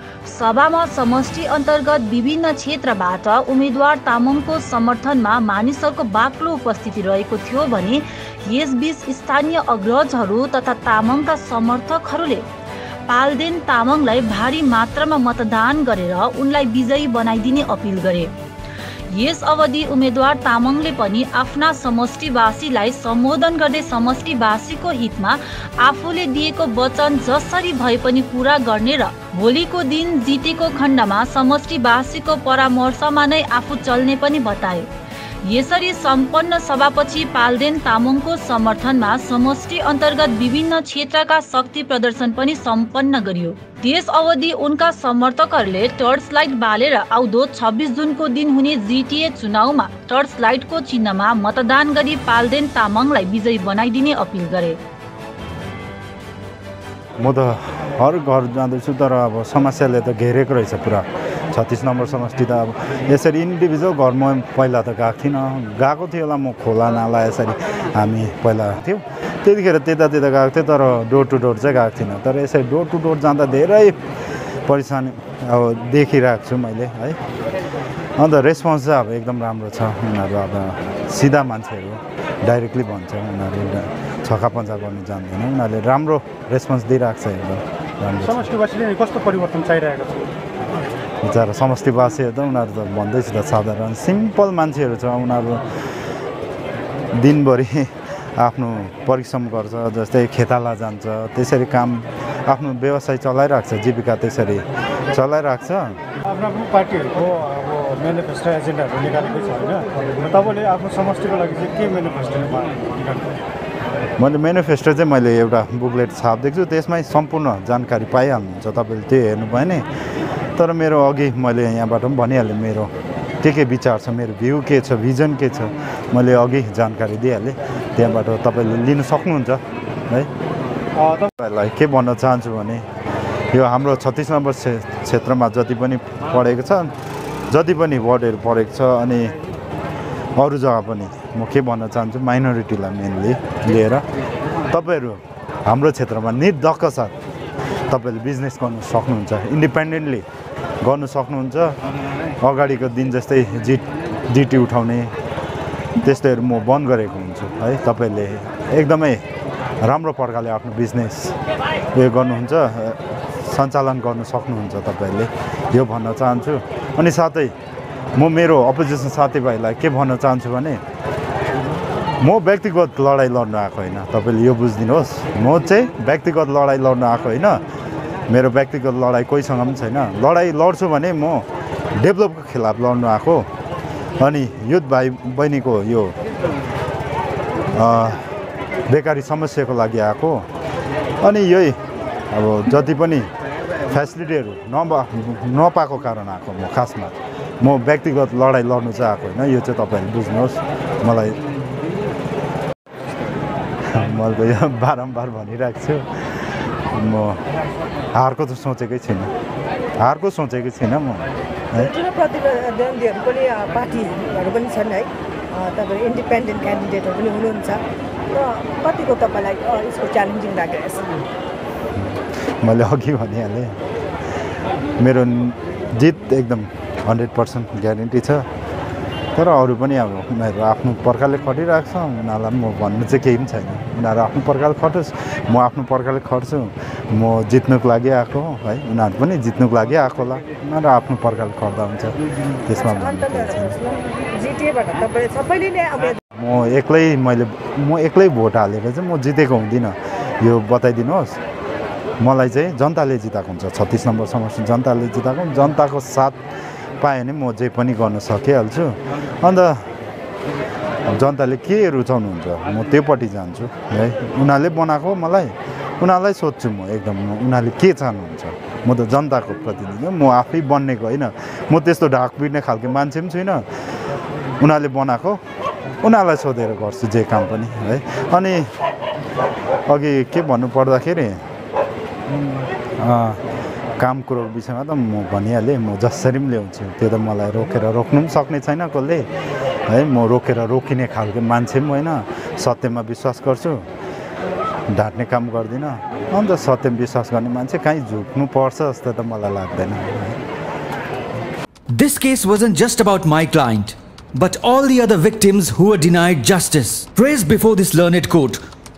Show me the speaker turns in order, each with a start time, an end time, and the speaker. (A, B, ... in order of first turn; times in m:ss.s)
0:00.2-0:12.4 A
0:13.1-0:18.3 A
0:19.1-0:34.9 A
0:35.4-0:54.8 A
0:57.2-1:14.0 B
1:14.7-1:17.2 B
1:18.2-1:28.4 B
1:28.3-1:30.3 C
1:31.2-1:35.6 B
1:37.1-1:46.0 B
1:46.3-1:53.3 C
1:54.2-1:59.9 B
2:00.6-2:10.3 B
2:11.0-2:11.3 C
2:11.4-2:12.8 B
2:13.5-2:16.9 B
2:17.5-2:19.4 B
2:20.4-2:24.1 B
2:24.7-2:27.1 B
2:27.9-2:30.2 B
2:30.8-2:31.8 B
2:32.4-2:35.1 B
2:36.0-2:39.2 B
2:39.8-2:41.4 B
2:41.9-2:47.5 B
2:48.2-2:50.8 B
2:52.2-2:57.6 B
2:58.3-3:01.5 B
3:02.0-3:03.5 B
3:04.2-3:06.2 B
3:07.7-3:08.2 B
3:08.9-3:10.5 B
3:11.2-3:11.8 B
3:12.3-3:13.3 B
3:13.9-3:21.4 B
3:23.9-3:26.1 B
3:26.9-3:27.4 B
3:28.1-3:29.3 B
3:30.0-3:31.9 B
3:31.8-3:41.2 D
3:42.0-3:43.8 B
3:45.0-3:48.4 B
3:49.4-4:03.8 B
4:02.9-4:06.2 D
4:06.3-4:11.4 B
4:12.2-4:16.4 B
4:17.0-4:19.9 B
4:21.0-4:33.6 B
4:34.6-4:35.4 B
4:36.0-4:38.7 B
4:39.9-4:41.4 B
4:43.0-4:43.4 B
4:44.0-4:49.3 B
4:49.9-4:53.8 B
4:54.9-5:00.4 B
5:01.9-5:08.6 E